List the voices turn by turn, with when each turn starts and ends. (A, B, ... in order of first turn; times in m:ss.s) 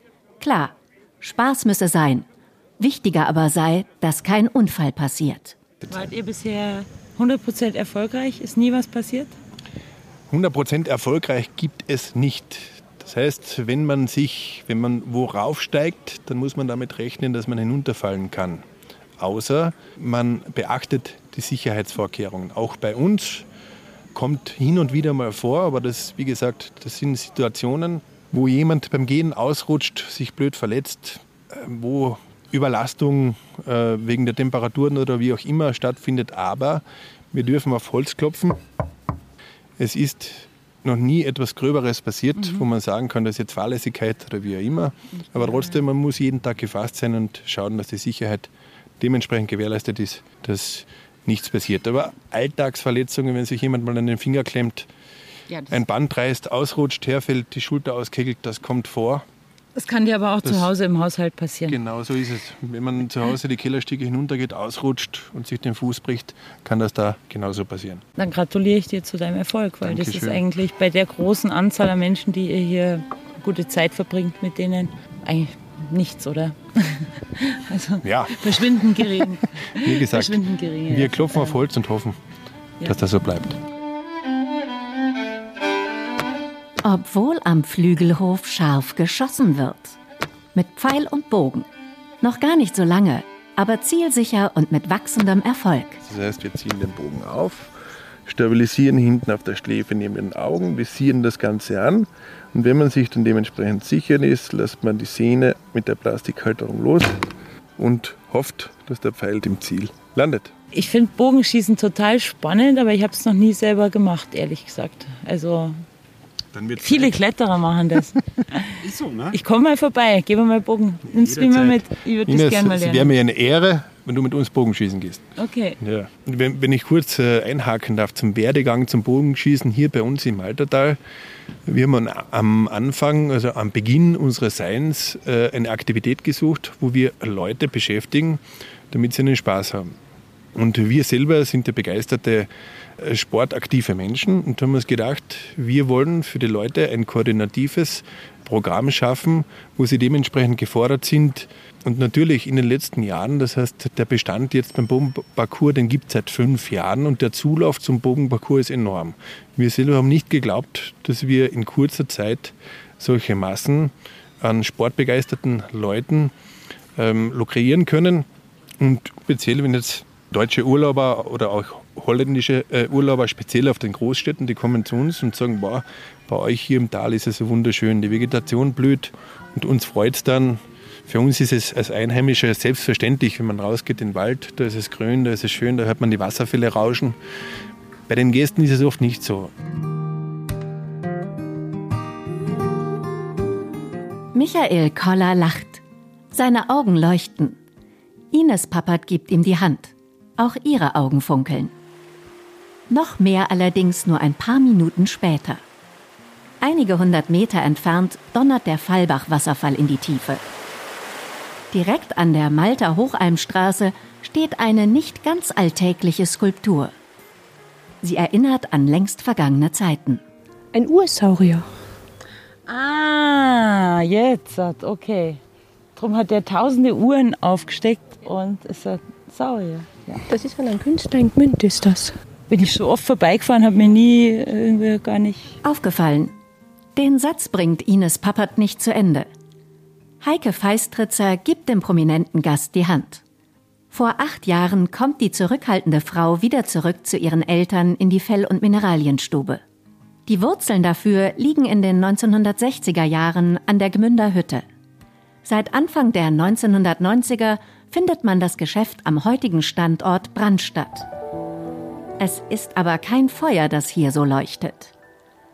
0:00.4-0:02.2 A
0:02.8-0:05.6 A
0:05.9-0:09.3 B
0:10.3-0:18.6 C
0:19.2-0:23.4 C
0:24.1-0:38.6 C
0:39.8-0:54.9 C
0:45.3-0:45.8 B
0:55.5-0:55.8 B
0:55.7-0:59.2 C
0:59.8-1:01.8 B
1:00.4-1:00.7 C
1:01.7-1:08.0 C
1:08.2-1:21.6 B
1:09.8-1:10.4 C
1:18.0-1:19.2 C
1:19.7-1:22.2 C
1:22.8-1:23.6 C
1:26.8-1:30.0 A
1:30.5-1:31.6 A
1:32.2-1:36.0 A
1:36.0-1:37.7 C
1:38.2-1:47.2 C
1:47.8-1:50.5 C
1:50.7-1:55.8 B
1:56.5-1:57.1 C
1:56.8-1:58.8 B
1:58.9-1:59.2 C
1:59.3-2:03.1 B
2:01.1-2:05.3 C
2:05.4-2:05.8 B
2:05.8-2:11.0 C
2:11.6-2:19.9 C
2:20.5-2:46.3 C
2:47.0-2:48.2 C
2:48.8-3:07.2 C
3:08.1-3:09.5 C
3:14.3-3:15.8 A
3:16.3-3:17.6 A
3:18.3-3:21.7 A
3:22.9-3:25.6 A
3:26.6-3:30.4 A
3:31.7-3:36.9 A
3:38.0-3:40.2 A
3:40.7-3:41.7 D
3:42.7-3:45.4 B
3:46.0-3:50.2 B
3:50.3-3:52.1 D
3:52.5-3:55.6 B
3:55.6-3:56.3 A
3:57.0-3:59.3 A
4:00.2-4:03.2 A
4:03.9-4:09.6 A
4:10.3-4:14.6 A
4:15.4-4:21.1 A
4:22.2-4:24.9 A